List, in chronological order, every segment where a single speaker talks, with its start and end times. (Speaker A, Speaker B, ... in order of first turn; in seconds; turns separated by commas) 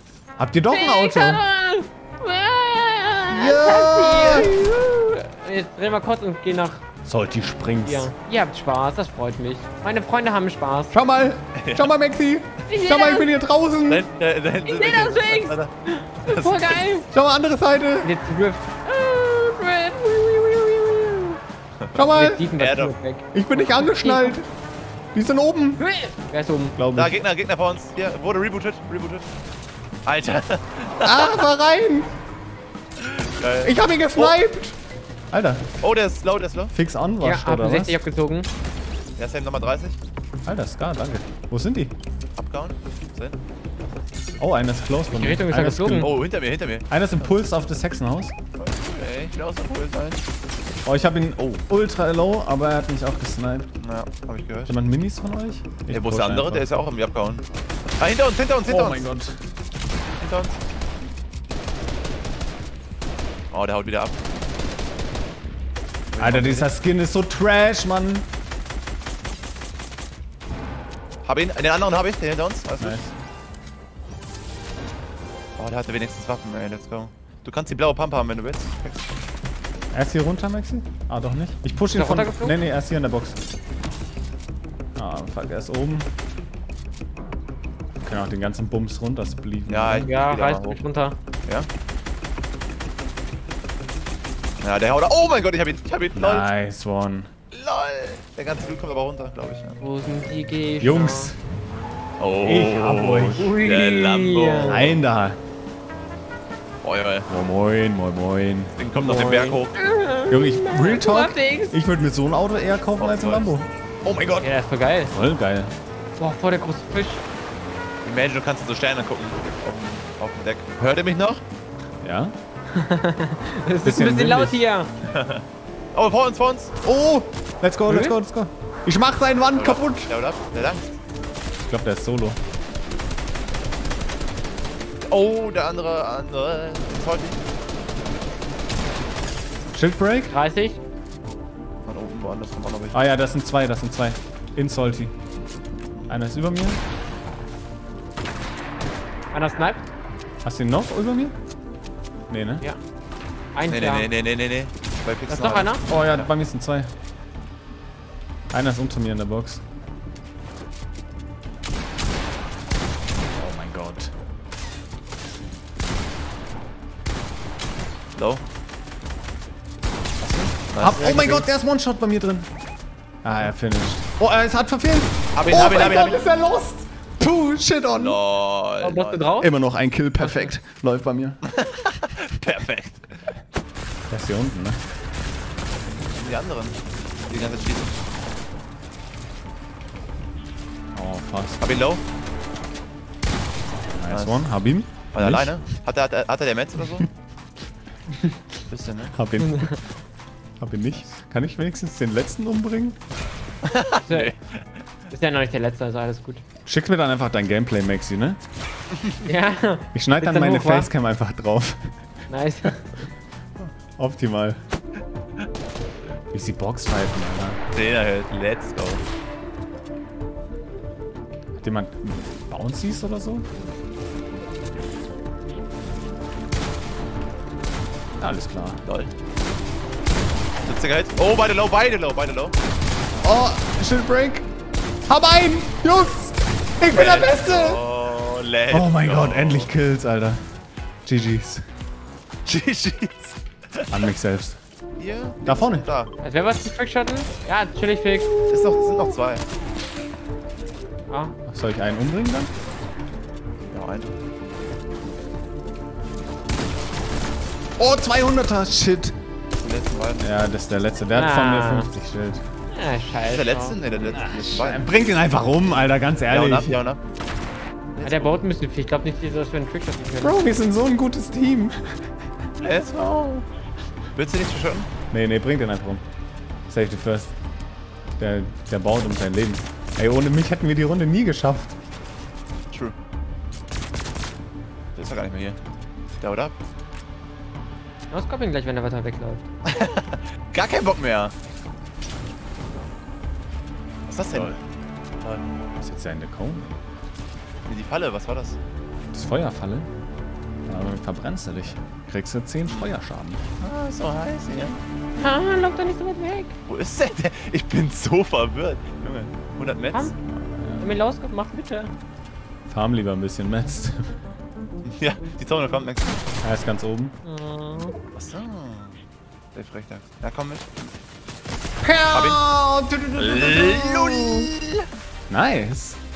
Speaker A: 0.4-1.4, Speaker B: 0.7-6.8, Speaker A: 3.3-4.7, Speaker A: 7.0-8.1, Speaker B: 7.8-10.9, Speaker A: 10.9-14.1, Speaker C: 11.6-11.9, Speaker B: 12.7-13.3, Speaker C: 13.9-15.7, Speaker B: 14.7-17.1, Speaker C: 16.2-16.8, Speaker A: 17.1-18.1, Speaker B: 18.0-21.4, Speaker A: 22.0-22.5, Speaker B: 22.1-24.4, Speaker C: 22.6-22.9, Speaker A: 23.3-24.5, Speaker A: 25.1-25.8, Speaker B: 25.8-26.8, Speaker A: 26.8-27.1, Speaker C: 26.9-29.3, Speaker C: 30.1-31.5, Speaker A: 31.0-32.1, Speaker C: 33.0-34.4, Speaker A: 33.6-34.8, Speaker A: 35.3-35.7, Speaker C: 35.8-36.7, Speaker A: 36.7-38.0, Speaker B: 37.2-38.5, Speaker C: 39.2-40.0, Speaker A: 40.5-41.9, Speaker C: 42.4-43.4, Speaker A: 44.4-46.1, Speaker B: 45.1-46.1, Speaker C: 45.9-47.3, Speaker A: 46.9-48.4, Speaker C: 48.6-50.2, Speaker A: 50.9-53.7, Speaker C: 53.8-54.8, Speaker A: 54.7-56.7, Speaker C: 55.9-57.5, Speaker C: 58.0-59.0, Speaker A: 58.7-59.3, Speaker C: 60.2-60.6, Speaker C: 63.5-64.2, Speaker C: 66.1-66.7, Speaker A: 66.2-68.3, Speaker C: 71.2-73.0, Speaker A: 72.8-73.1, Speaker C: 75.6-79.1, Speaker A: 79.9-83.4, Speaker B: 81.9-82.6, Speaker A: 85.0-86.1, Speaker A: 88.0-90.1, Speaker C: 89.7-90.8, Speaker B: 89.9-91.2, Speaker C: 94.6-96.5, Speaker A: 96.2-97.3, Speaker C: 97.5-99.8, Speaker B: 99.8-101.3, Speaker A: 100.8-101.4, Speaker C: 102.2-105.0, Speaker A: 102.4-103.5, Speaker B: 103.4-104.8, Speaker A: 104.7-105.4, Speaker C: 106.8-107.3, Speaker A: 107.3-108.8, Speaker C: 108.8-109.8, Speaker B: 109.0-111.8, Speaker A: 110.3-114.4, Speaker C: 113.0-114.4, Speaker B: 114.4-115.2, Speaker A: 115.1-115.7, Speaker B: 116.2-117.2, Speaker C: 118.0-121.4, Speaker A: 122.0-122.3, Speaker B: 122.7-124.9, Speaker A: 123.8-124.6, Speaker C: 125.1-126.7, Speaker A: 126.8-130.1, Speaker B: 127.9-128.2, Speaker C: 129.6-131.0, Speaker A: 131.7-132.4, Speaker C: 135.0-137.4, Speaker A: 139.7-140.3, Speaker B: 140.3-140.8, Speaker C: 141.8-143.0, Speaker A: 142.9-145.1, Speaker A: 146.1-146.8, Speaker B: 149.3-149.8, Speaker A: 150.4-151.3, Speaker A: 152.3-152.6, Speaker B: 153.5-154.1, Speaker C: 153.7-156.3, Speaker B: 155.3-155.8, Speaker A: 155.9-156.9, Speaker A: 158.5-159.6, Speaker A: 163.3-164.1, Speaker C: 168.2-168.4, Speaker C: 170.2-171.4, Speaker A: 170.8-172.5, Speaker B: 170.9-171.4, Speaker A: 173.2-178.2, Speaker C: 175.3-176.2, Speaker C: 177.9-179.3, Speaker B: 178.8-179.5, Speaker A: 179.4-181.4, Speaker B: 180.2-180.5, Speaker C: 181.4-183.1, Speaker A: 184.1-184.8, Speaker C: 186.1-187.9, Speaker A: 190.9-191.6, Speaker C: 191.6-192.0, Speaker A: 193.8-195.6, Speaker C: 194.1-194.5, Speaker C: 195.1-197.1, Speaker C: 198.7-199.1, Speaker A: 199.1-199.8, Speaker B: 199.4-199.8, Speaker A: 200.6-203.0, Speaker C: 203.7-204.4, Speaker B: 204.1-204.3, Speaker B: 205.1-206.4, Speaker A: 206.7-208.4, Speaker B: 209.2-210.9, Speaker A: 209.9-211.8, Speaker B: 212.3-212.8, Speaker A: 214.0-214.6, Speaker A: 216.3-217.6, Speaker C: 217.7-219.0, Speaker A: 221.6-223.5, Speaker A: 228.2-228.8, Speaker C: 228.8-229.1, Speaker C: 230.6-232.5, Speaker A: 233.2-234.5, Speaker A: 235.1-237.8, Speaker C: 236.9-239.7, Speaker A: 238.7-240.4, Speaker A: 241.1-241.6, Speaker C: 242.5-244.1, Speaker A: 243.9-244.6, Speaker C: 245.0-246.1, Speaker A: 245.5-245.9, Speaker B: 246.2-248.3, Speaker C: 248.5-249.4, Speaker B: 251.1-251.3, Speaker A: 251.5-252.5, Speaker C: 253.7-254.1, Speaker A: 257.8-259.1, Speaker C: 259.6-260.3, Speaker A: 260.2-262.4, Speaker B: 261.1-261.9, Speaker B: 262.7-263.8, Speaker C: 263.2-264.9, Speaker A: 264.1-266.8, Speaker C: 266.3-267.0, Speaker C: 267.9-268.4, Speaker B: 268.0-270.4, Speaker A: 270.2-272.1, Speaker C: 272.6-273.5, Speaker C: 274.1-274.9, Speaker A: 275.1-276.0, Speaker A: 276.7-277.3, Speaker A: 278.2-281.8, Speaker C: 285.0-285.6, Speaker C: 286.2-286.5, Speaker B: 288.1-289.5, Speaker C: 289.7-291.3, Speaker C: 294.1-294.6, Speaker A: 295.8-296.7, Speaker C: 297.6-298.6, Speaker A: 299.1-299.9, Speaker A: 300.7-303.4, Speaker C: 302.7-302.9, Speaker C: 303.6-304.8, Speaker B: 305.2-306.5, Speaker C: 306.7-310.1, Speaker A: 310.3-311.0, Speaker B: 310.8-311.9, Speaker A: 312.7-314.1, Speaker C: 314.9-316.2, Speaker A: 316.4-317.2, Speaker B: 317.2-318.0, Speaker C: 318.1-319.0, Speaker C: 319.6-320.9, Speaker A: 321.8-324.5, Speaker C: 322.1-322.4, Speaker C: 323.2-324.9, Speaker A: 325.3-326.0